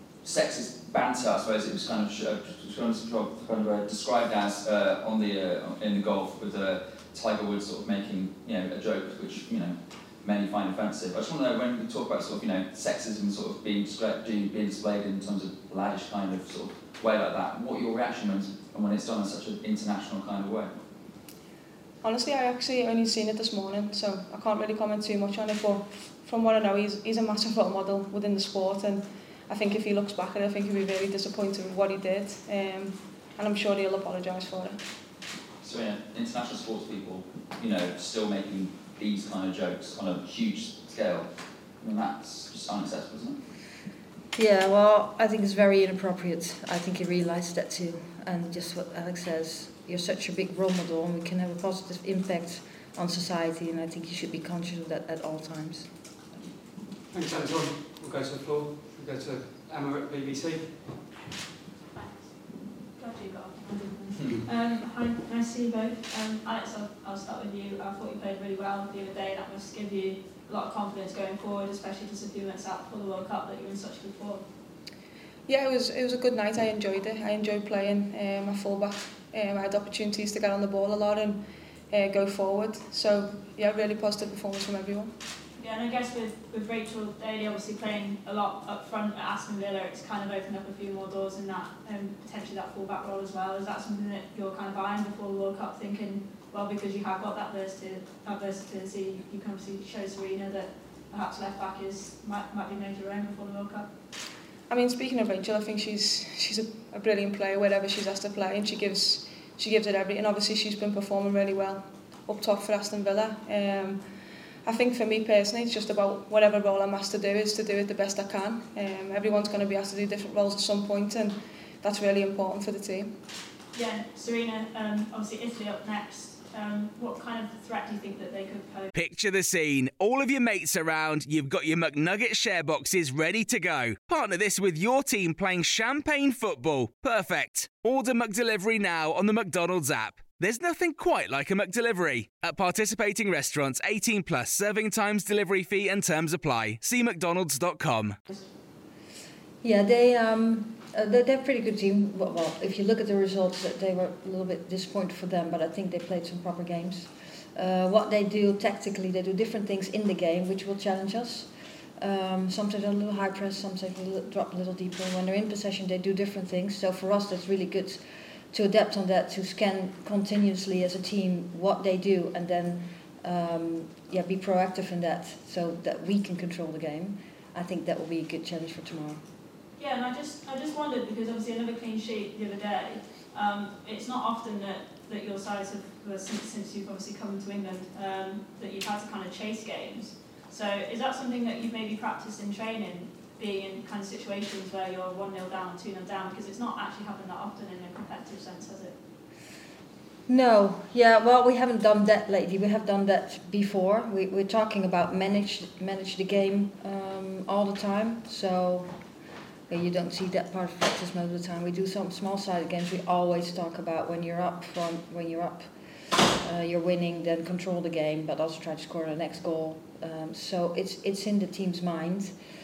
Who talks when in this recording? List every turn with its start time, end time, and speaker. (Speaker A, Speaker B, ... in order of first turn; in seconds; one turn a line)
Speaker A: 0.2-20.7
Speaker B: 22.0-34.8
Speaker A: 35.6-41.3
Speaker A: 41.8-43.4
Speaker C: 44.4-56.0
Speaker D: 57.1-61.1
Speaker E: 61.9-62.4
Speaker E: 63.0-74.5
Speaker B: 75.5-85.1
Speaker E: 85.6-103.9
Speaker B: 104.7-114.0
Speaker B: 114.6-123.2
Speaker E: 123.7-128.9
Speaker F: 128.9-148.2
Speaker C: 149.6-179.2
Speaker E: 179.8-199.0
Speaker C: 200.3-209.0
Speaker C: 209.7-215.7
Speaker C: 216.4-222.3